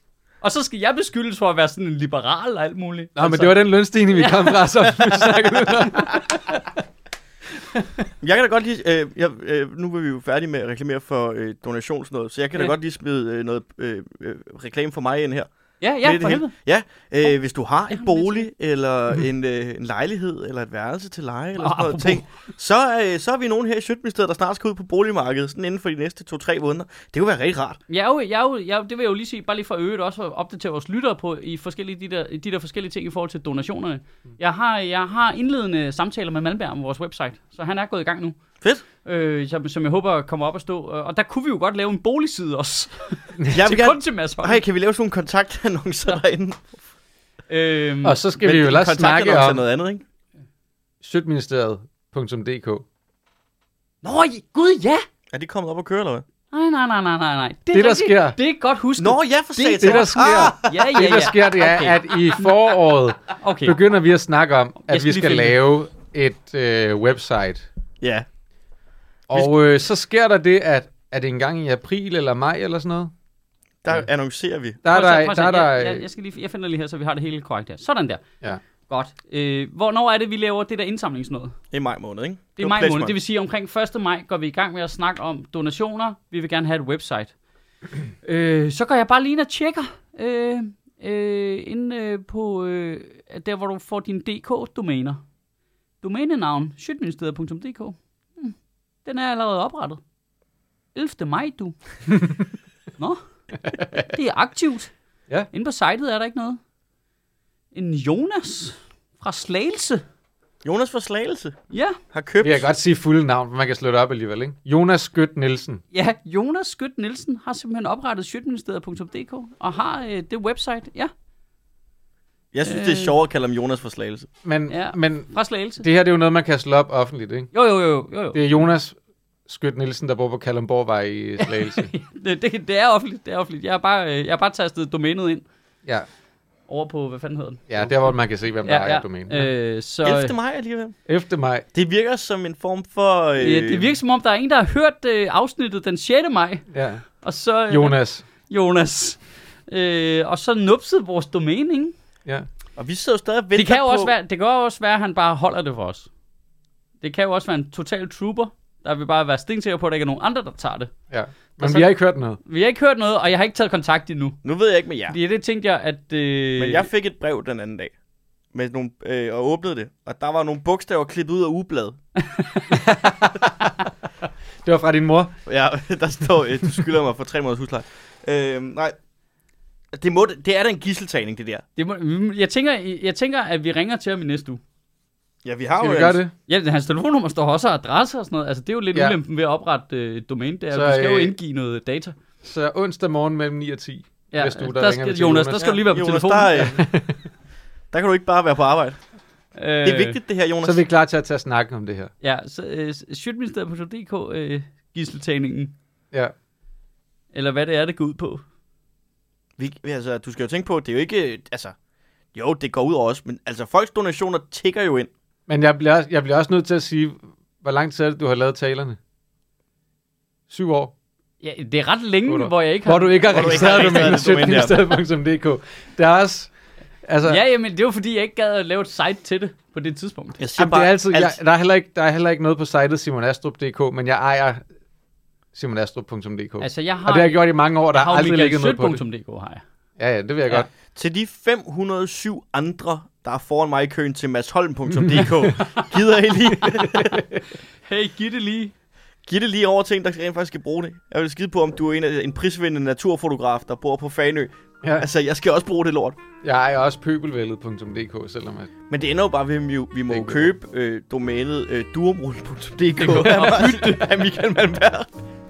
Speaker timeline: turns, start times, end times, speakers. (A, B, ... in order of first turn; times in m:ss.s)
0:00.4-0:06.2 A
0:03.2-0:06.6 B
0:07.7-0:08.0 B
0:08.2-0:15.5 C
0:15.8-0:16.5 A
0:16.0-0:27.8 C
0:17.9-0:18.5 A
0:21.6-0:22.2 A
0:27.9-0:38.4 A
0:39.0-0:44.6 A
0:43.5-0:46.7 C
0:47.5-0:48.2 A
0:48.0-0:49.6 B
0:48.4-0:50.0 C
0:51.0-0:52.8 B
0:54.0-0:55.0 A
0:55.3-0:56.2 C
0:56.5-1:02.7 A
0:57.7-0:58.4 B
0:59.0-1:01.1 C
0:59.8-1:07.6 B
1:03.3-1:03.8 A
1:04.9-1:05.6 A
1:08.0-1:08.3 C
1:09.3-1:13.1 B
1:13.8-1:14.8 C
1:14.8-1:16.0 B
1:14.9-1:18.2 A
1:18.8-1:21.6 A
1:21.7-1:23.1 C
1:22.6-1:27.3 A
1:28.2-1:35.2 A
1:36.0-1:40.0 A
1:40.9-1:42.1 A
1:43.7-1:44.9 A
1:43.7-1:44.0 B
1:45.5-1:46.6 A
1:47.7-1:50.0 A
1:50.6-1:52.7 C
1:51.7-1:52.0 A
1:52.4-1:55.8 B
1:55.9-2:01.1 A
2:02.5-2:04.3 C
2:02.6-2:03.1 A
2:04.4-2:07.5 B
2:04.7-2:05.8 A
2:07.5-2:08.6 A
2:08.3-2:11.9 B
2:11.4-2:15.4 A
2:16.7-2:18.1 A
2:17.7-2:19.5 B
2:18.6-2:20.3 A
2:20.0-2:21.0 C
2:21.1-2:21.6 B
2:21.7-2:23.9 C
2:23.4-2:31.9 A
2:26.7-2:27.0 B
2:27.7-2:28.2 B
2:32.8-2:34.1 C
2:33.5-2:36.1 A
2:37.0-2:40.9 A
2:41.1-2:42.4 B
2:41.6-2:44.4 A
2:44.4-2:45.2 C
2:45.1-2:46.9 A
2:46.6-2:47.9 C
2:48.5-2:52.0 C
2:52.2-2:52.8 A
2:52.7-2:55.3 B
2:55.5-2:58.9 C
2:59.9-3:01.6 C
3:01.8-3:04.6 A
3:05.4-3:06.2 C
3:05.8-3:06.3 B
3:06.4-3:12.2 A
3:10.7-3:11.4 B
3:12.4-3:15.7 B
3:14.3-3:16.8 A
3:15.5-3:16.9 C
3:16.8-3:17.2 B
3:17.9-3:19.1 C
3:19.5-3:20.2 A
3:19.8-3:20.8 C
3:20.6-3:22.1 B
3:22.2-3:25.8 A
3:27.3-3:28.4 A
3:29.6-3:31.7 C
3:32.3-3:35.1 C
3:35.5-3:39.0 B
3:40.5-3:40.9 B
3:41.4-3:44.2 A
3:42.3-3:46.5 B
3:43.3-3:44.8 C
3:47.0-3:47.4 B
3:47.2-3:50.4 A
3:50.4-3:51.4 C
3:50.6-3:54.6 B
3:55.5-3:59.0 B
3:56.6-3:59.6 A
4:00.0-4:00.7 B
4:00.9-4:07.2 C
4:05.0-4:05.5 B
4:06.6-4:07.4 B
4:07.8-4:08.7 A
4:09.2-4:16.2 C
4:16.4-4:18.7 B
4:18.9-4:25.1 C
4:20.1-4:20.5 B
4:23.0-4:24.2 A
4:23.2-4:23.7 B